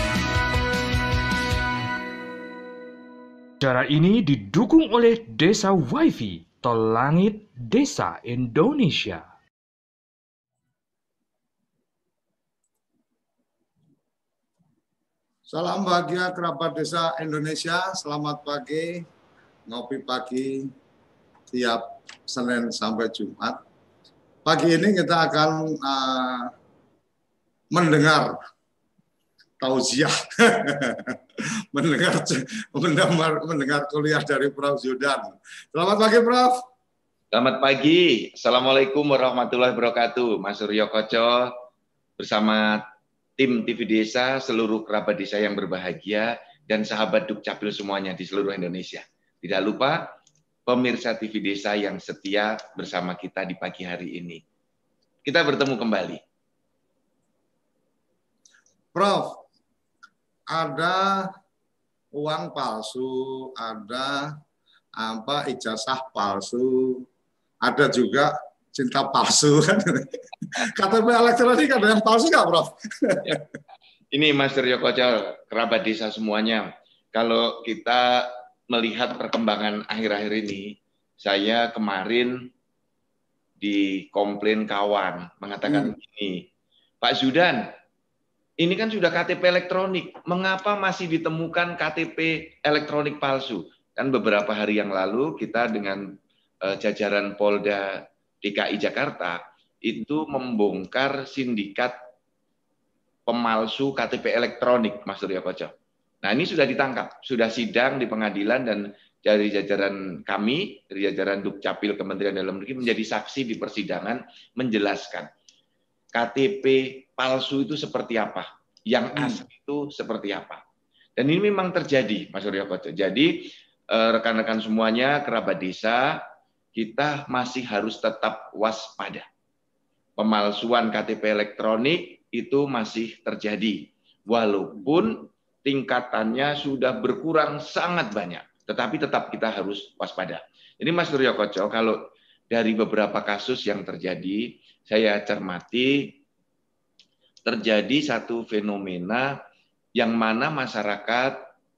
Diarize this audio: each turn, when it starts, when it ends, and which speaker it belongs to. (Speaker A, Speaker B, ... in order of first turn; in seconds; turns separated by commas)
Speaker A: 3.6-9.3, Speaker B: 15.5-19.1, Speaker B: 19.7-20.7, Speaker B: 21.5-23.6, Speaker B: 24.4-26.5, Speaker B: 27.7-28.4, Speaker B: 29.6-31.2, Speaker B: 31.7-36.6, Speaker C: 37.3-41.5, Speaker C: 42.2-42.9, Speaker C: 43.4-50.1, Speaker C: 50.7-54.4, Speaker C: 55.2-56.2, Speaker B: 58.9-59.4, Speaker B: 60.5-61.3, Speaker B: 62.1-64.4, Speaker B: 65.0-67.0, Speaker B: 67.7-73.5, Speaker C: 74.1-82.4, Speaker C: 83.6-86.5, Speaker B: 85.7-86.0, Speaker C: 87.0-87.7, Speaker C: 88.6-102.0, Speaker C: 103.3-115.3, Speaker C: 116.1-120.6, Speaker B: 119.2-119.4, Speaker C: 121.2-126.2, Speaker C: 126.8-129.3, Speaker C: 130.2-142.0, Speaker C: 142.5-146.2, Speaker C: 147.5-149.4, Speaker C: 150.0-151.4